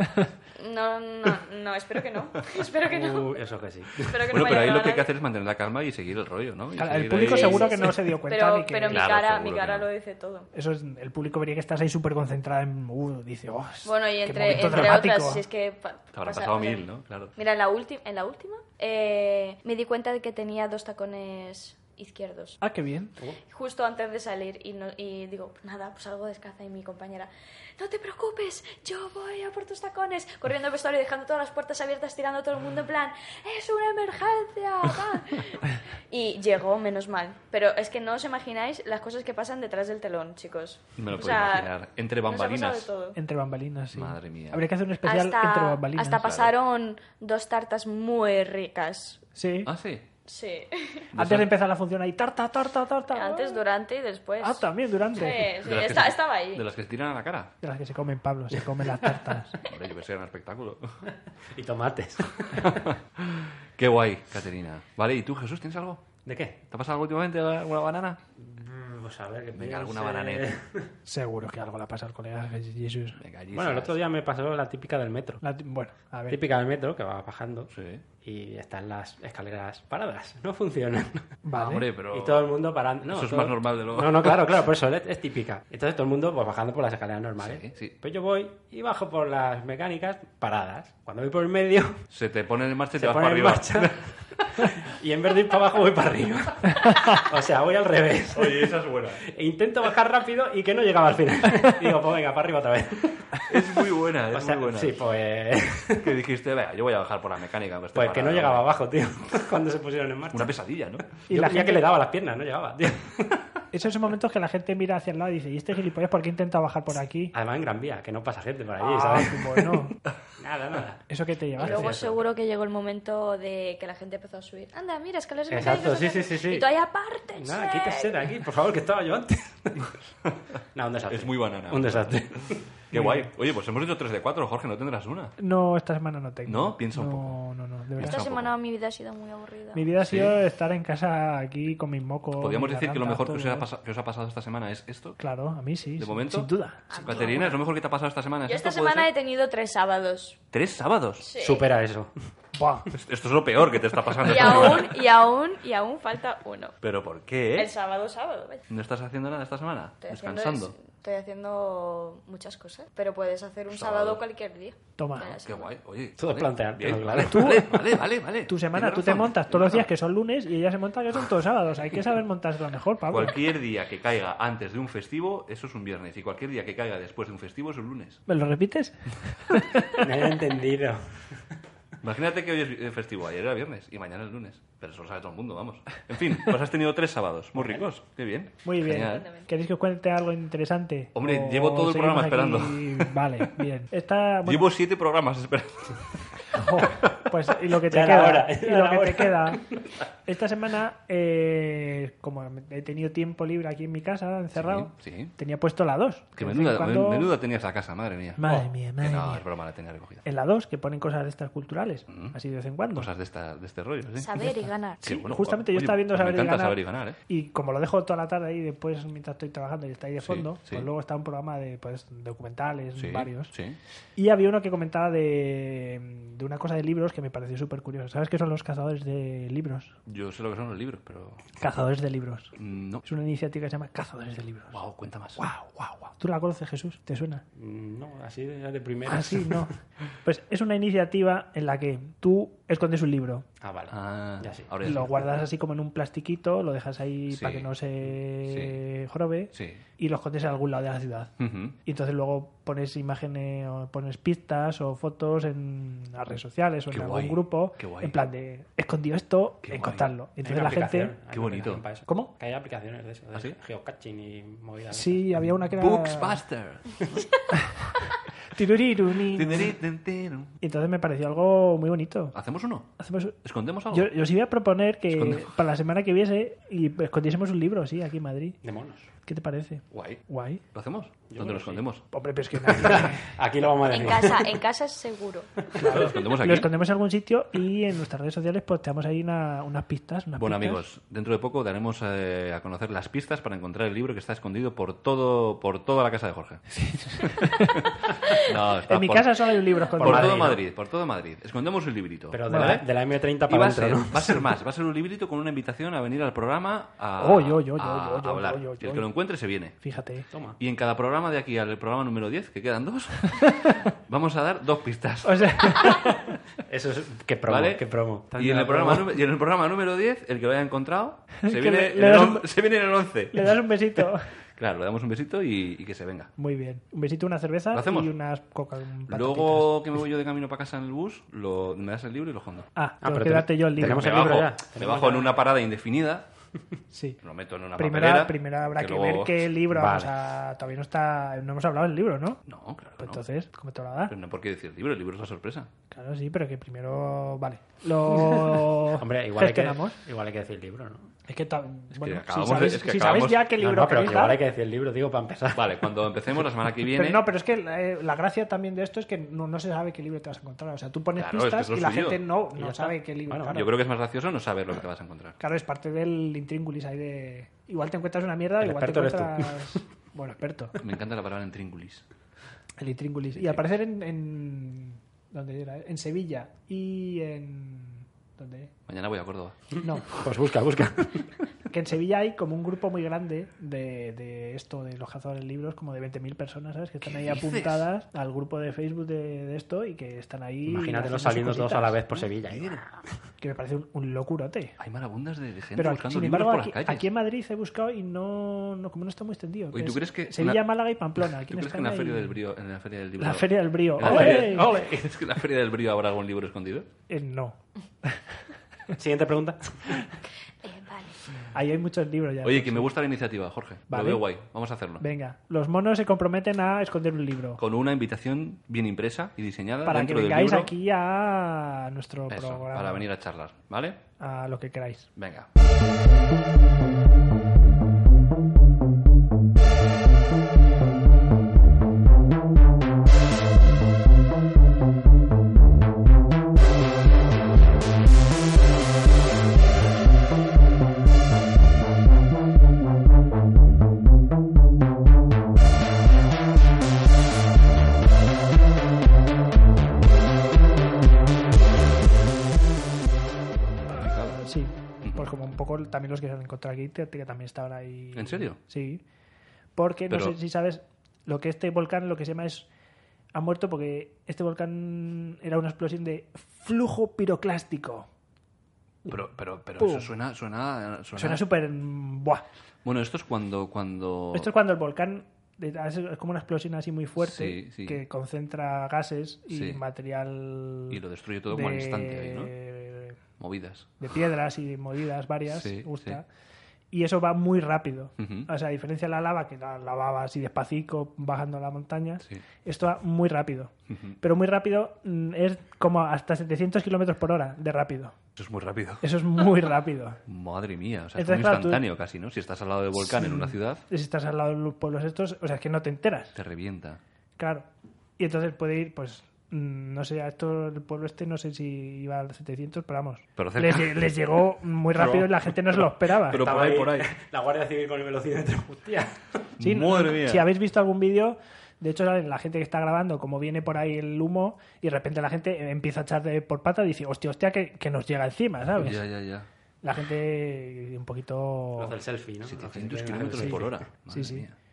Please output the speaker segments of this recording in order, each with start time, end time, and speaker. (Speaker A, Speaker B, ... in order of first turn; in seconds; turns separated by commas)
Speaker A: 0.6-3.4, Speaker B: 2.9-4.5, Speaker A: 4.0-5.1, Speaker C: 4.3-7.9, Speaker D: 6.8-9.1, Speaker A: 7.2-10.5, Speaker C: 8.9-9.9, Speaker D: 10.5-15.4, Speaker A: 13.8-22.6, Speaker C: 16.1-17.3, Speaker D: 22.6-23.1, Speaker A: 23.5-41.7, Speaker C: 41.0-42.9, Speaker A: 42.2-43.2, Speaker D: 43.1-46.3, Speaker C: 43.9-44.6, Speaker A: 45.0-49.2, Speaker C: 46.2-46.5, Speaker D: 49.4-49.7, Speaker C: 49.6-50.1, Speaker A: 50.3-51.0, Speaker C: 51.1-51.5, Speaker D: 51.1-53.6, Speaker A: 53.1-56.7, Speaker D: 54.4-55.5, Speaker C: 55.6-57.5, Speaker D: 57.6-59.6, Speaker C: 59.6-61.0, Speaker B: 61.5-62.9, Speaker C: 62.6-66.1, Speaker B: 66.2-66.6, Speaker C: 66.7-68.2, Speaker B: 68.4-70.9, Speaker C: 69.5-70.5, Speaker D: 71.1-73.2, Speaker C: 73.2-74.0, Speaker B: 73.5-75.4, Speaker D: 75.4-76.4, Speaker B: 76.3-77.7, Speaker C: 77.7-78.0, Speaker B: 78.2-81.3, Speaker D: 81.5-81.9, Speaker C: 81.5-82.5, Speaker B: 82.1-92.0, Speaker C: 83.1-84.6, Speaker C: 87.4-88.0, Speaker C: 92.1-94.1, Speaker B: 93.0-103.4, Speaker C: 98.3-99.2, Speaker C: 103.5-105.0, Speaker B: 104.3-106.1, Speaker C: 105.9-108.7, Speaker B: 108.0-110.5, Speaker C: 110.3-111.1, Speaker D: 111.3-111.9, Speaker B: 111.3-113.4, Speaker D: 113.7-117.3, Speaker B: 117.3-121.0, Speaker D: 118.8-120.0, Speaker D: 121.1-121.9, Speaker B: 121.6-122.2, Speaker A: 121.6-128.3, Speaker B: 125.5-126.7, Speaker B: 127.4-129.9, Speaker B: 130.7-132.6, Speaker C: 131.1-135.4, Speaker D: 132.9-133.3, Speaker D: 135.4-138.2, Speaker C: 136.5-137.4, Speaker C: 137.9-138.5, Speaker A: 138.0-139.8, Speaker D: 139.7-143.7, Speaker C: 140.0-140.4, Speaker C: 142.4-145.2, Speaker D: 145.2-146.9, Speaker C: 146.0-149.1, Speaker A: 146.9-147.6, Speaker A: 148.5-150.4, Speaker C: 150.5-151.3, Speaker A: 151.2-151.7, Speaker B: 151.4-152.1, Speaker D: 152.6-152.9, Speaker C: 152.9-155.0, Speaker A: 154.2-156.8, Speaker C: 156.8-157.7, Speaker A: 157.5-158.7, Speaker C: 158.7-160.8, Speaker A: 160.0-165.7, Speaker C: 163.7-164.2, Speaker D: 165.0-165.3, Speaker C: 165.4-169.8, Speaker B: 166.2-167.6, Speaker D: 167.2-173.4, Speaker C: 173.1-178.2, Speaker D: 178.3-180.0, Speaker B: 180.0-181.4, Speaker C: 182.0-189.3, Speaker B: 187.6-187.8, Speaker D: 188.6-194.7, Speaker A: 189.0-189.5, Speaker C: 191.2-193.2, Speaker C: 194.4-197.1, Speaker D: 196.5-199.6, Speaker B: 197.9-199.8, Speaker D: 200.3-207.4, Speaker C: 204.5-205.3, Speaker C: 206.4-208.4, Speaker D: 208.4-209.4, Speaker C: 209.0-210.2, Speaker D: 210.2-213.1, Speaker C: 212.1-212.4, Speaker C: 212.9-217.2, Speaker A: 214.2-215.0, Speaker D: 215.0-223.5, Speaker C: 220.2-220.9, Speaker C: 223.0-223.8, Speaker D: 224.2-229.9, Speaker C: 230.1-231.4, Speaker D: 231.6-234.8, Speaker C: 232.6-233.0, Speaker C: 234.7-235.4, Speaker D: 235.4-237.4, Speaker B: 237.6-239.7, Speaker D: 239.1-239.7, Speaker D: 240.2-243.5, Speaker B: 243.6-244.9, Speaker C: 243.9-245.4, Speaker D: 244.8-251.3, Speaker C: 247.3-248.8, Speaker C: 249.5-249.8, Speaker C: 251.4-251.8, Speaker D: 251.8-261.1, Speaker C: 256.9-258.3, Speaker C: 259.7-260.1, Speaker B: 260.4-265.5, Speaker C: 261.3-261.8, Speaker D: 262.1-262.3, Speaker D: 264.9-266.4, Speaker C: 265.8-267.3, Speaker D: 267.5-268.0, Speaker D: 268.5-269.8, Speaker C: 269.3-270.5, Speaker D: 270.6-272.4, Speaker C: 272.3-272.9, Speaker D: 273.0-273.4, Speaker C: 273.4-274.1, Speaker D: 273.9-278.6, Speaker C: 275.1-275.5, Speaker B: 278.6-279.1, Speaker D: 279.3-280.6, Speaker C: 279.9-280.2, Speaker C: 280.7-282.0, Speaker B: 281.3-281.8, Speaker D: 282.1-283.3, Speaker B: 282.7-284.5, Speaker A: 283.9-285.5, Speaker D: 285.8-290.8, Speaker C: 285.8-286.7, Speaker C: 290.4-296.6, Speaker D: 296.7-297.9, Speaker C: 297.2-297.8, Speaker C: 298.3-302.9, Speaker D: 298.9-300.5, Speaker B: 300.0-300.6, Speaker B: 302.3-304.4, Speaker D: 302.5-302.8, Speaker C: 303.5-309.8, Speaker D: 307.2-309.1, Speaker D: 309.8-310.3, Speaker B: 310.3-310.6, Speaker C: 310.6-316.1, Speaker D: 315.2-316.4, Speaker B: 316.7-319.1, Speaker C: 317.5-323.6, Speaker D: 321.4-322.6, Speaker D: 323.3-324.3, Speaker C: 324.6-326.3, Speaker D: 326.4-329.8, Speaker C: 327.7-328.1, Speaker C: 329.1-332.7, Speaker D: 332.8-334.4, Speaker B: 333.0-335.4, Speaker C: 333.8-336.3, Speaker D: 336.9-337.2, Speaker C: 337.2-339.5, Speaker D: 337.8-342.4, Speaker B: 339.7-340.1, Speaker C: 342.5-343.2, Speaker D: 343.0-344.1, Speaker C: 344.1-345.7, Speaker D: 345.9-350.0, Speaker B: 349.0-351.1, Speaker D: 351.3-354.4, Speaker C: 351.9-353.5, Speaker B: 353.6-355.9, Speaker C: 355.5-357.2, Speaker D: 356.9-363.7, Speaker C: 361.2-362.2, Speaker B: 362.6-363.6, Speaker C: 363.5-365.4, Speaker D: 365.4-370.8, Speaker B: 368.6-369.8, Speaker C: 370.8-372.0, Speaker D: 372.8-378.7, Speaker C: 378.9-379.6, Speaker D: 379.8-380.2, Speaker B: 380.1-381.2, Speaker D: 381.7-392.0, Speaker C: 387.0-387.9, Speaker B: 390.7-393.0, Speaker C: 392.1-392.8, Speaker D: 393.4-394.8, Speaker C: 394.8-397.1, Speaker D: 395.8-402.4, Speaker C: 399.7-400.7, Speaker C: 401.2-406.9, Speaker D: 403.2-404.7, Speaker B: 404.0-405.1, Speaker D: 407.1-408.2, Speaker B: 408.9-410.1, Speaker A: 410.6-411.1, Speaker D: 411.5-412.9, Speaker C: 412.4-415.0, Speaker D: 413.9-414.3, Speaker D: 415.0-417.6, Speaker C: 417.6-420.7, Speaker D: 419.9-423.0, Speaker C: 422.3-424.0, Speaker D: 424.2-425.1, Speaker C: 425.2-425.5, Speaker C: 453.9-454.5, Speaker D: 454.4-459.0, Speaker C: 455.0-455.4, Speaker C: 458.1-458.6, Speaker D: 459.8-462.7, Speaker C: 460.1-460.4, Speaker D: 463.3-468.1, Speaker C: 469.1-471.4, Speaker D: 469.8-470.1, Speaker D: 471.2-472.4, Speaker C: 472.9-474.5, Speaker D: 474.3-483.2, Speaker C: 477.2-478.0, Speaker C: 479.5-479.8, Speaker C: 480.9-482.5, Speaker C: 483.4-484.0, Speaker D: 484.0-486.2, Speaker C: 485.5-486.2, Speaker D: 486.9-498.2, Speaker C: 488.2-488.5, Speaker C: 493.9-494.2, Speaker C: 498.4-499.1, Speaker D: 499.0-500.2, Speaker C: 500.3-503.8, Speaker D: 501.2-501.8, Speaker D: 503.0-506.4, Speaker C: 506.3-507.0, Speaker D: 507.4-507.7, Speaker D: 508.2-516.4, Speaker C: 513.4-514.3, Speaker C: 515.0-517.1, Speaker B: 516.3-519.5, Speaker C: 519.6-520.5, Speaker D: 519.6-529.0, Speaker C: 528.8-529.5, Speaker D: 529.8-532.0, Speaker B: 531.8-533.8, Speaker C: 532.4-534.5, Speaker D: 533.4-534.5